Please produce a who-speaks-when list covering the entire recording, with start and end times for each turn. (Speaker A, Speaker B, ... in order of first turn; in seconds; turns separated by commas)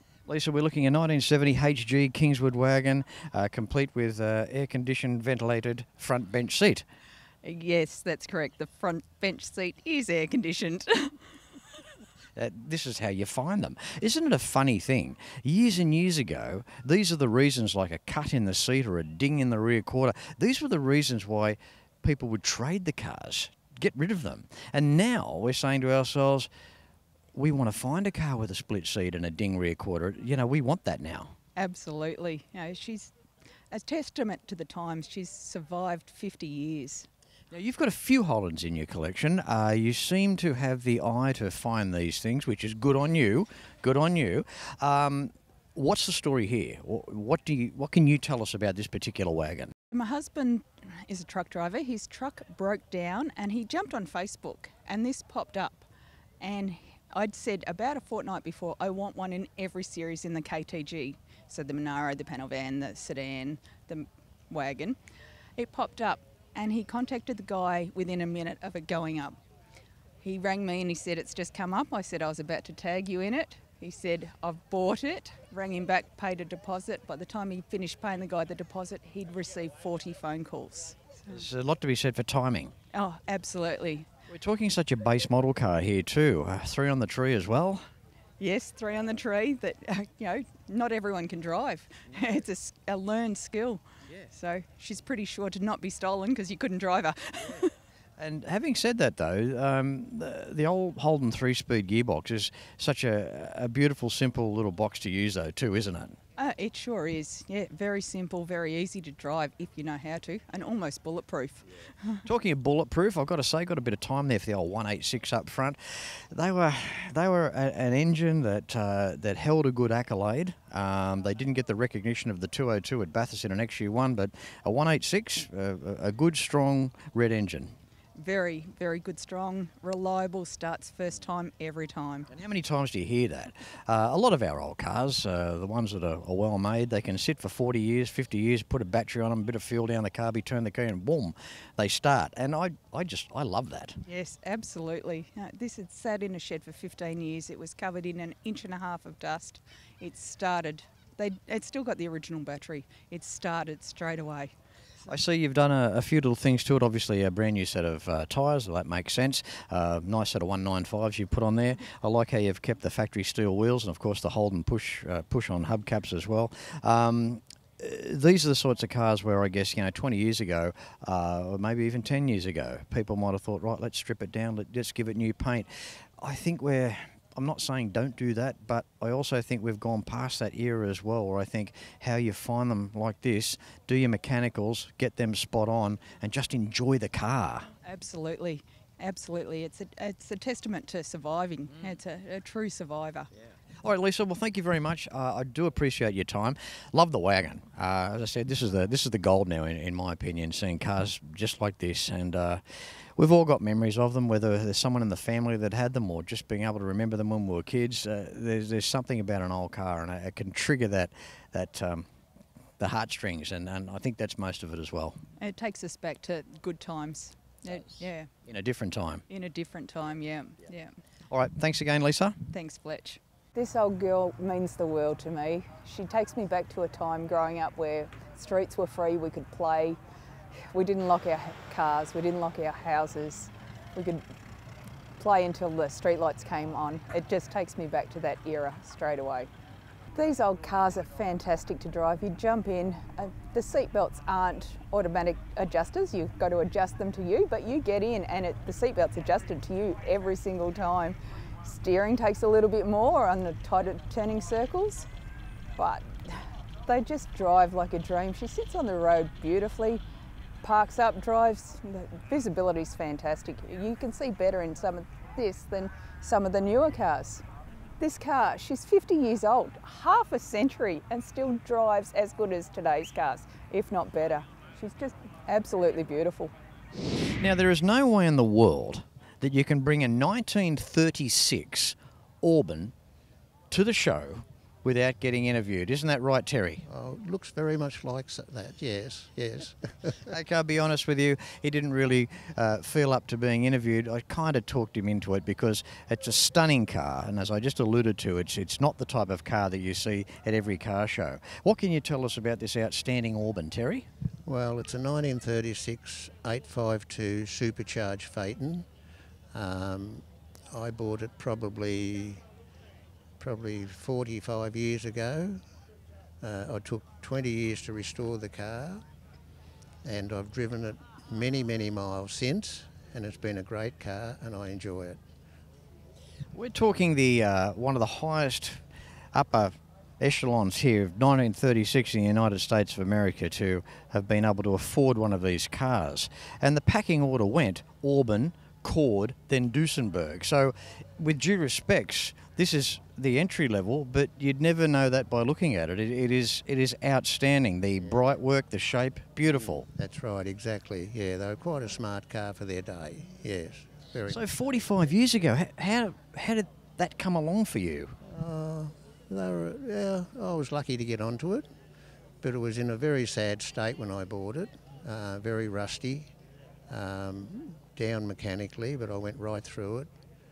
Speaker A: 0.3-6.9, Speaker B: 7.4-11.4, Speaker A: 12.4-26.5, Speaker A: 27.4-31.4, Speaker B: 31.6-33.1, Speaker B: 33.7-37.1, Speaker A: 37.5-49.7, Speaker B: 49.9-55.9, Speaker B: 56.4-65.0, Speaker B: 65.6-69.4, Speaker B: 70.2-81.4, Speaker A: 81.3-82.7, Speaker B: 82.9-84.1, Speaker A: 84.3-87.9, Speaker B: 88.4-97.7, Speaker A: 98.2-106.2, Speaker B: 106.4-112.2, Speaker A: 112.2-127.8, Speaker B: 128.2-132.3, Speaker A: 132.3-144.0, Speaker B: 144.1-154.5, Speaker A: 155.1-187.7, Speaker B: 187.8-193.3, Speaker A: 193.8-202.6, Speaker A: 203.2-212.1, Speaker A: 212.8-215.2, Speaker B: 215.4-218.3, Speaker A: 218.5-219.2, Speaker B: 219.3-220.9, Speaker A: 221.3-222.4, Speaker B: 222.5-230.0, Speaker B: 230.7-234.2, Speaker B: 235.2-239.5, Speaker B: 240.1-255.1, Speaker B: 255.8-260.0, Speaker B: 260.6-267.4, Speaker B: 268.0-276.5, Speaker A: 277.4-282.9, Speaker A: 283.7-286.8, Speaker C: 286.9-290.2, Speaker A: 290.3-304.1, Speaker C: 304.5-308.9, Speaker C: 309.5-312.4, Speaker C: 313.4-315.6, Speaker C: 316.4-319.0, Speaker C: 320.0-325.2, Speaker A: 326.5-328.8, Speaker A: 329.3-349.9, Speaker C: 350.0-354.4, Speaker A: 354.3-358.2, Speaker C: 358.3-361.7, Speaker C: 362.4-366.3, Speaker C: 366.9-370.1